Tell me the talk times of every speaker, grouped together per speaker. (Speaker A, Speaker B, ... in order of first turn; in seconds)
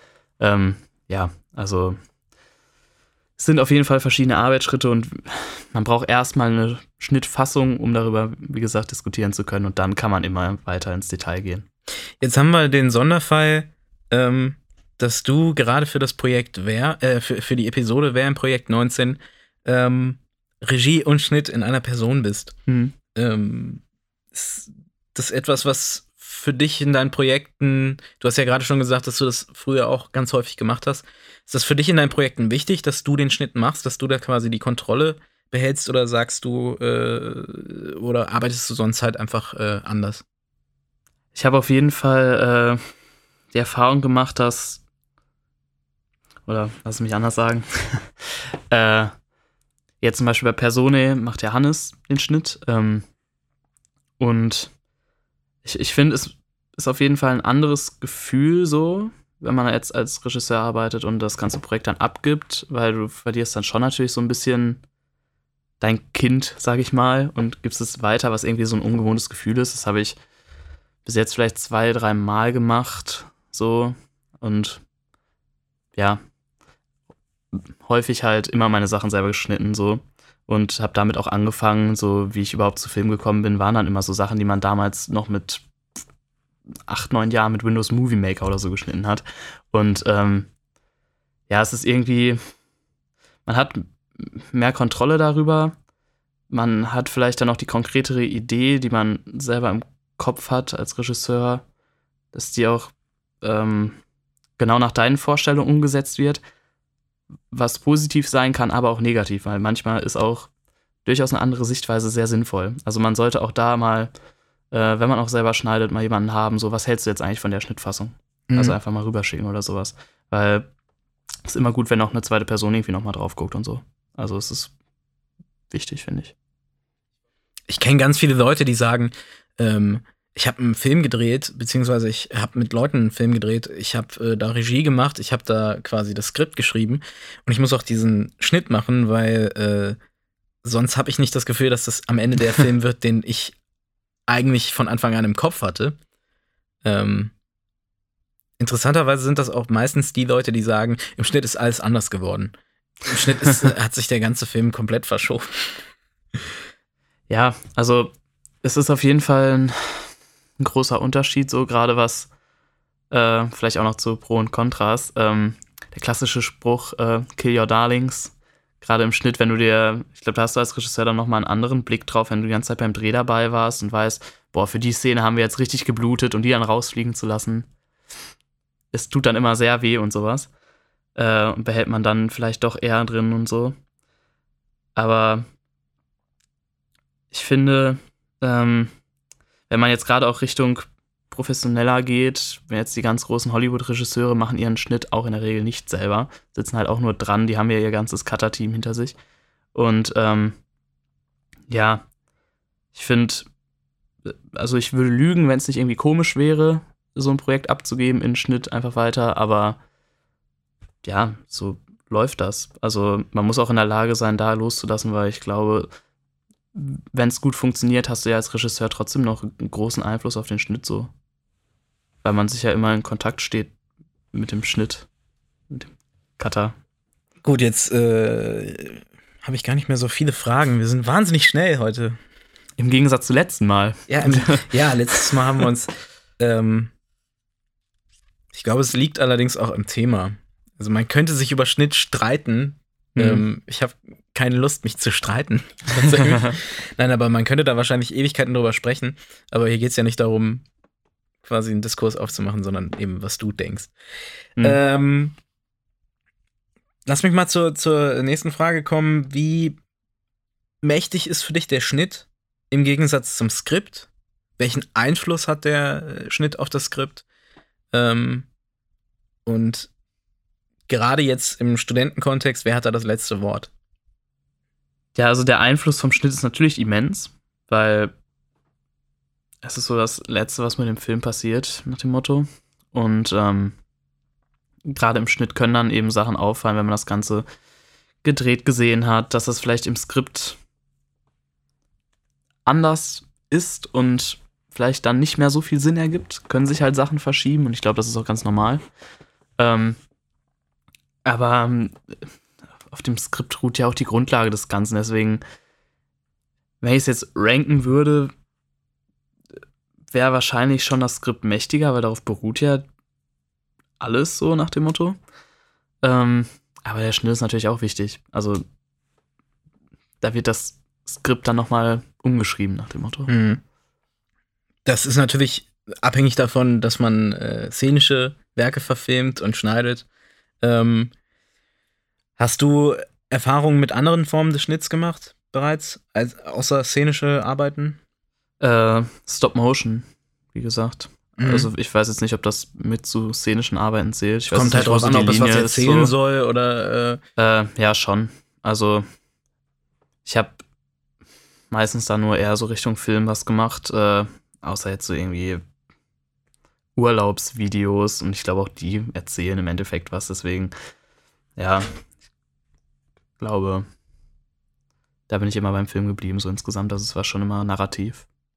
Speaker A: 0.4-2.0, 3.4-11.7, 22.7-22.9, 41.3-42.8, 43.5-44.8, 46.5-49.1, 50.0-53.0, 54.2-54.7, 55.6-64.8, 65.8-70.2, 71.0-74.8, 76.0-76.2, 77.8-85.6, 86.9-90.5, 91.5-92.4, 93.5-95.7, 96.5-101.6, 102.3-104.0, 104.6-106.4, 107.5-110.5, 111.0-114.1, 114.7-120.6, 121.4-124.7, 125.7-126.3, 157.3-158.1, 158.6-162.3, 163.1-177.7, 178.9-180.5, 181.1-183.8, 184.9-185.5, 187.3-188.9, 189.7-199.2, 199.7-200.6, 201.7-202.1, 202.9-203.5, 204.2-209.8, 211.0-215.9, 216.7-221.1, 222.2-223.7, 224.3-225.1, 225.7-226.8, 232.8-235.3, 243.2-243.4, 246.0-246.6, 275.1-278.1, 279.6-283.8, 284.9-287.4, 288.2-290.6, 292.6-298.8, 299.6-300.0, 301.2-302.1, 302.9-305.4, 306.8-308.3, 310.1-312.8, 314.0-315.2, 316.0-318.6, 320.2-323.3, 338.6-346.1, 347.4-349.1, 350.2-350.6, 351.7-355.6, 356.9-360.7, 361.6-361.9, 363.4-363.9, 365.3-368.2
Speaker B: 12.2-22.5, 23.1-23.8, 24.3-40.2, 118.5-118.8, 127.7-140.0, 140.6-143.6, 144.3-146.0, 146.8-147.3, 148.6-152.5, 153.1-155.8, 227.4-232.2, 234.1-236.9, 238.5-250.6, 251.4-253.9, 254.6-255.3, 257.1-259.8, 260.8-267.2, 267.9-268.5, 269.4-269.9, 270.9-273.7, 323.3-323.6, 324.9-330.1, 330.6-331.1, 332.4-338.0, 341.4-341.7, 344.5-347.2